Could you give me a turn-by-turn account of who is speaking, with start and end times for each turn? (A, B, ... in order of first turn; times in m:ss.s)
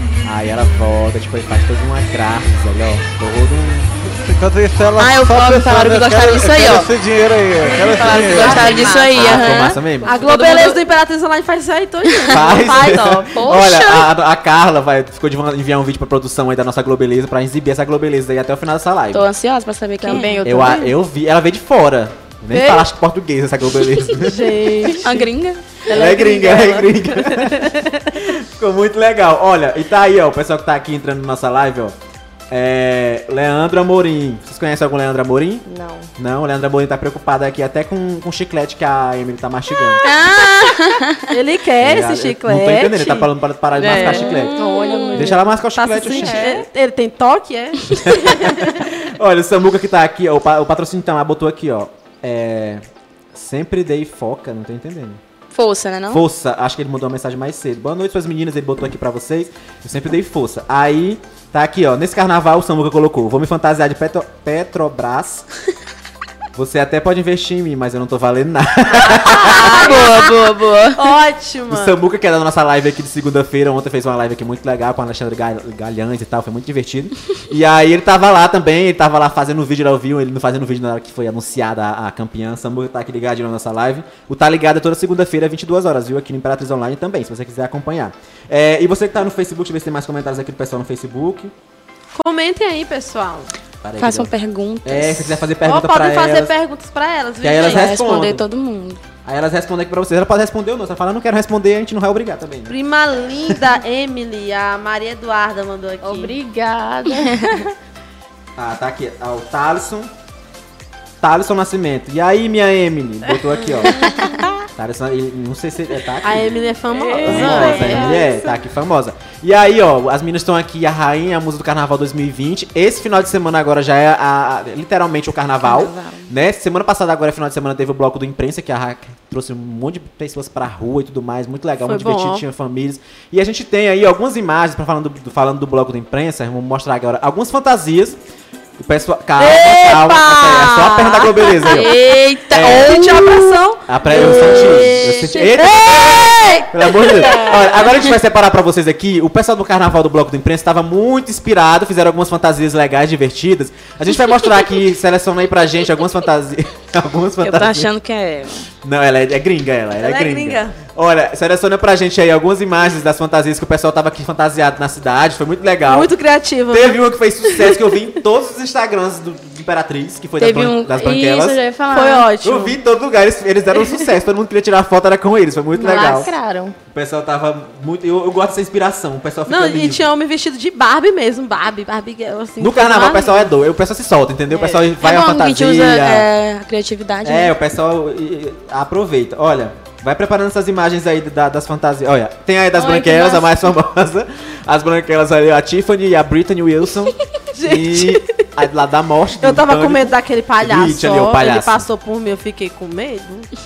0:00.2-0:03.9 A
0:04.0-0:08.8 B
0:05.0-0:06.9 C
0:07.6-0:10.6 D
0:07.6-0:10.8 C
0:09.0-0:10.1 A
0:10.0-0:13.0 E
0:12.3-0:19.3 A
0:12.3-0:13.8 D
0:13.6-0:14.0 C
0:19.1-0:20.7 C
0:20.0-0:20.9 D
0:20.4-0:25.0 A
0:22.5-0:22.9 E
0:24.2-0:25.3 E
0:25.0-0:26.2 C
0:25.8-0:27.0 D
0:25.9-0:31.9 A
0:32.5-0:35.6 A
0:35.6-0:36.1 D
0:36.2-0:40.0 A
0:40.0-0:41.3 C
0:41.3-0:43.3 E
0:41.8-0:44.5 A
0:43.8-0:45.4 C
0:43.8-0:45.4 D
0:45.1-0:46.6 A
0:45.8-0:48.8 E
0:45.9-0:46.6 D
0:47.9-0:55.2 A
0:55.5-0:56.2 C
0:56.1-1:05.5 A
1:06.5-1:10.0 A
1:09.1-1:11.2 C
1:09.5-1:10.4 E
1:11.0-1:12.0 E
1:11.7-1:31.5 A
1:32.1-1:33.5 E
1:33.8-1:36.5 A
1:34.0-1:35.5 C
1:35.6-1:37.9 E
1:37.4-1:38.4 A
1:37.5-1:39.0 C
1:39.2-1:42.7 A
1:42.7-1:46.4 E
1:46.0-1:47.7 D
1:48.6-1:50.1 A
1:51.2-1:54.0 A
1:53.9-1:54.4 D
1:54.0-1:54.3 C
1:54.8-1:56.5 A
1:56.2-1:58.2 E
1:57.0-1:58.5 D
1:57.2-1:58.3 C
1:57.2-2:18.2 A
2:05.6-2:06.3 C
2:11.8-2:12.4 E
2:18.8-2:21.9 A
2:19.4-2:22.0 E
2:20.8-2:25.5 C
2:22.5-2:23.0 A
2:22.6-2:27.5 E
2:23.9-2:37.9 A
2:27.0-2:28.1 C
2:37.4-2:38.7 C
2:38.8-2:46.1 A
2:40.0-2:40.8 E
2:45.8-2:48.0 E
2:46.7-2:51.6 A
2:50.4-2:52.3 C
2:51.9-2:52.8 E
2:52.4-2:56.3 A
2:55.7-2:56.8 D
2:56.9-3:00.1 A
2:59.4-3:03.5 E
3:02.6-3:06.3 A
3:04.7-3:07.5 C
3:07.2-3:21.8 A
3:12.8-3:13.6 C
3:17.5-3:18.4 E
3:19.4-3:23.5 E